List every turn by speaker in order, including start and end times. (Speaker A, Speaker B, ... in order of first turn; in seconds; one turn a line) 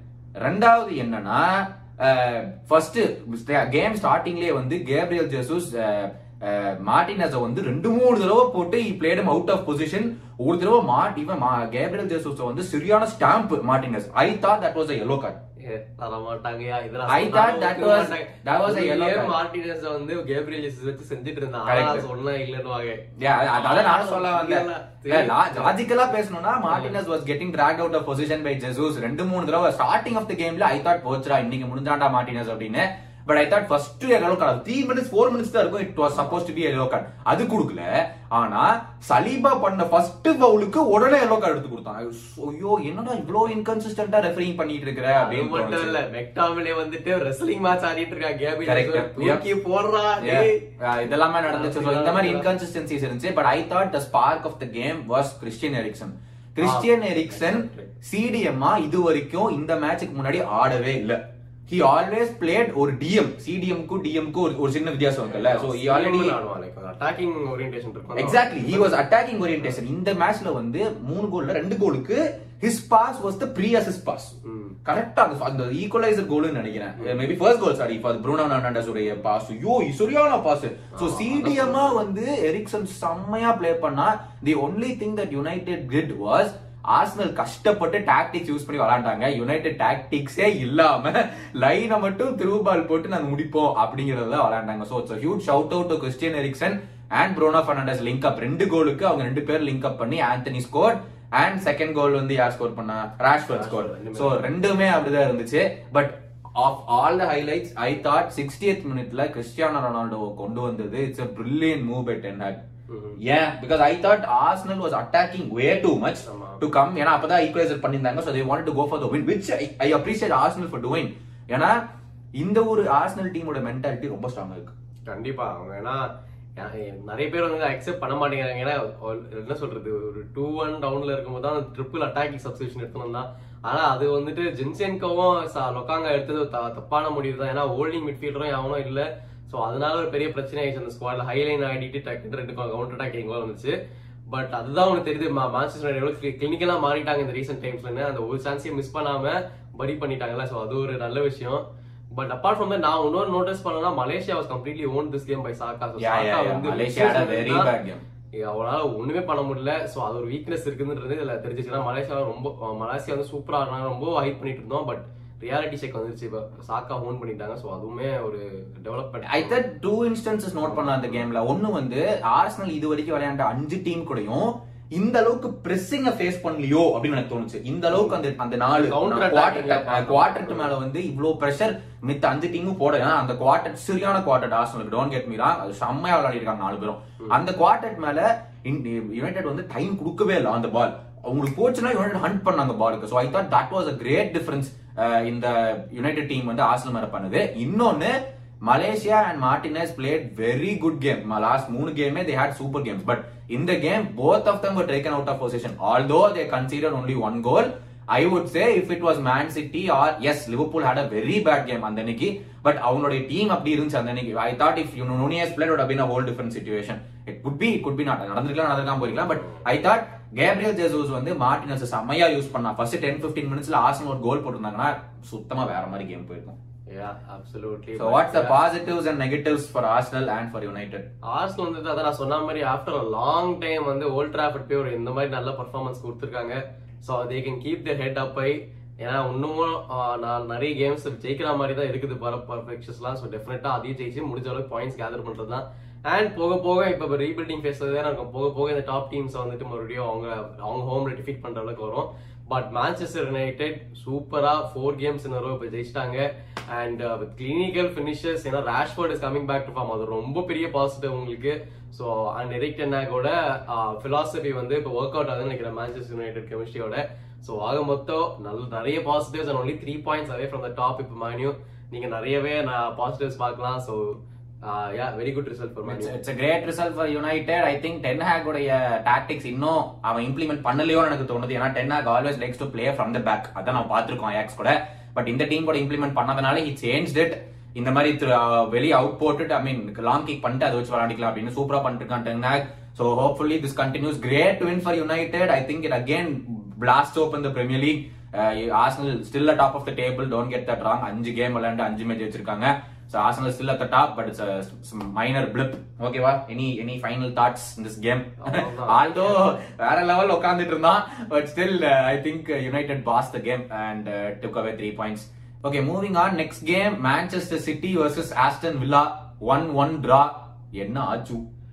Speaker A: 0.4-15.4
Speaker B: 15.6-23.0
Speaker A: 17.1-19.3
Speaker A: 21.7-22.0
Speaker A: 23.2-46.0
Speaker B: 23.5-25.8
Speaker B: 26.7-26.9
Speaker B: 45.2-50.6
Speaker A: 48.6-49.4
Speaker A: 50.2-66.4
Speaker B: 51.5-52.5
Speaker B: 56.6-57.9
Speaker B: 65.3-69.0
Speaker A: 68.2-112.6
Speaker B: 74.4-74.8
Speaker B: 77.0-77.2
Speaker B: 80.9-82.0
Speaker B: 103.5-104.5
Speaker B: 112.9-113.2
Speaker A: 113.2-121.8
Speaker B: 116.2-116.6
Speaker A: 122.4-124.7
Speaker B: 125.1-143.8
Speaker B: 144.3-157.7
Speaker A: 156.0-158.0
Speaker B: 158.4-169.6
Speaker A: 169.2-226.6
Speaker B: 170.7-171.2
Speaker B: 178.7-180.7
Speaker B: 219.1-219.6
Speaker B: 226.9-228.6
Speaker A: 228.0-231.1
Speaker B: 231.2-276.2
Speaker A: 275.9-321.4
Speaker B: 308.4-309.4